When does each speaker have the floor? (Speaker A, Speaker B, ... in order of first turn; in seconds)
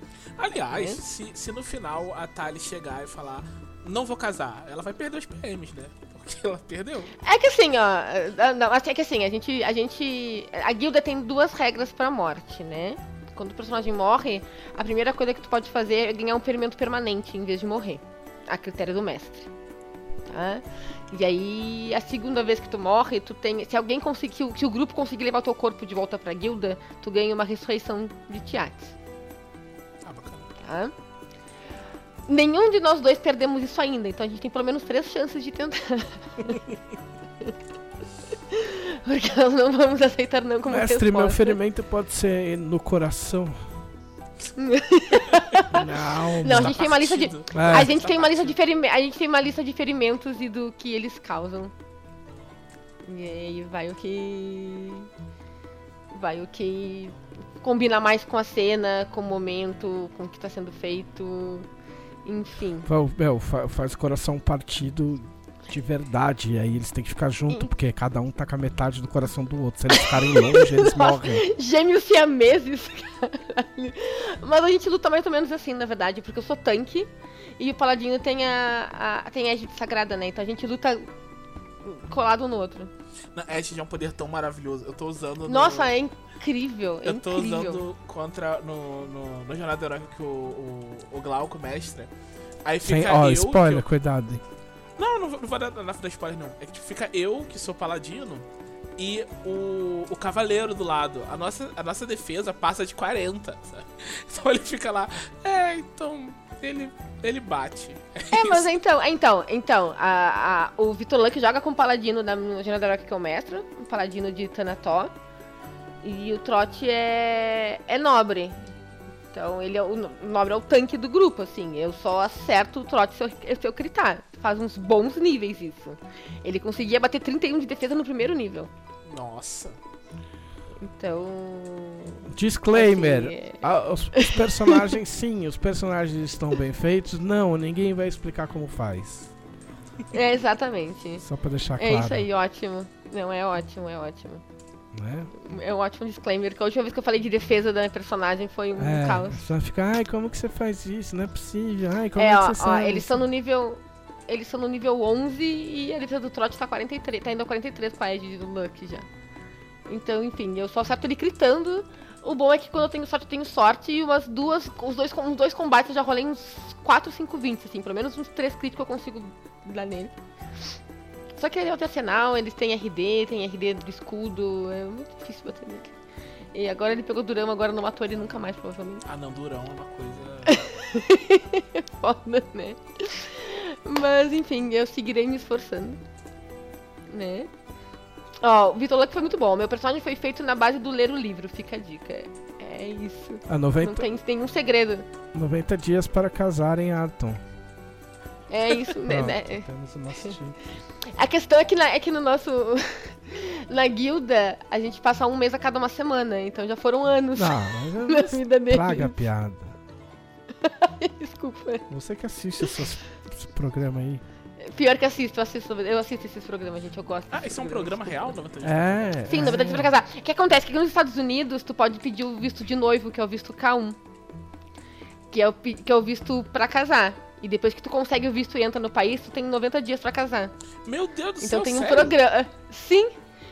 Speaker A: 0.4-7.2, 30.0-30.5, 46.5-48.5, 83.3-85.9, 87.0-92.1, 92.7-93.8, 95.0-108.7, 129.1-129.8, 179.1-180.7, 217.3-219.5, 230.8-232.2
Speaker B: 0.7-1.0, 7.2-19.5, 20.3-28.9, 30.6-30.9, 32.3-36.6, 38.5-41.6, 44.6-51.7, 53.0-55.1, 56.1-61.7, 62.2-62.9, 69.9-81.1, 81.8-82.9, 85.5-87.8, 108.3-115.1, 116.0-118.7, 119.3-128.7, 130.8-133.6, 134.1-135.0, 140.1-141.2, 141.8-144.4, 145.4-149.4, 152.2-159.1, 159.9-170.2, 171.4-175.9, 176.5-179.0, 180.5-186.0, 187.1-187.5, 188.4-195.1, 198.5-199.7, 201.0-209.2, 210.6-211.9, 214.6-218.4, 219.3-224.0, 225.3-230.5, 231.4-233.2
Speaker C: 40.7-43.6, 45.7-46.8, 47.5-47.9, 62.9-71.4, 92.8-94.4, 132.3-139.3, 141.2-142.3, 144.9-145.3, 148.8-153.2, 193.5-194.1, 195.3-197.4, 198.9-200.6, 207.4-209.8, 211.9-214.2, 218.6-219.9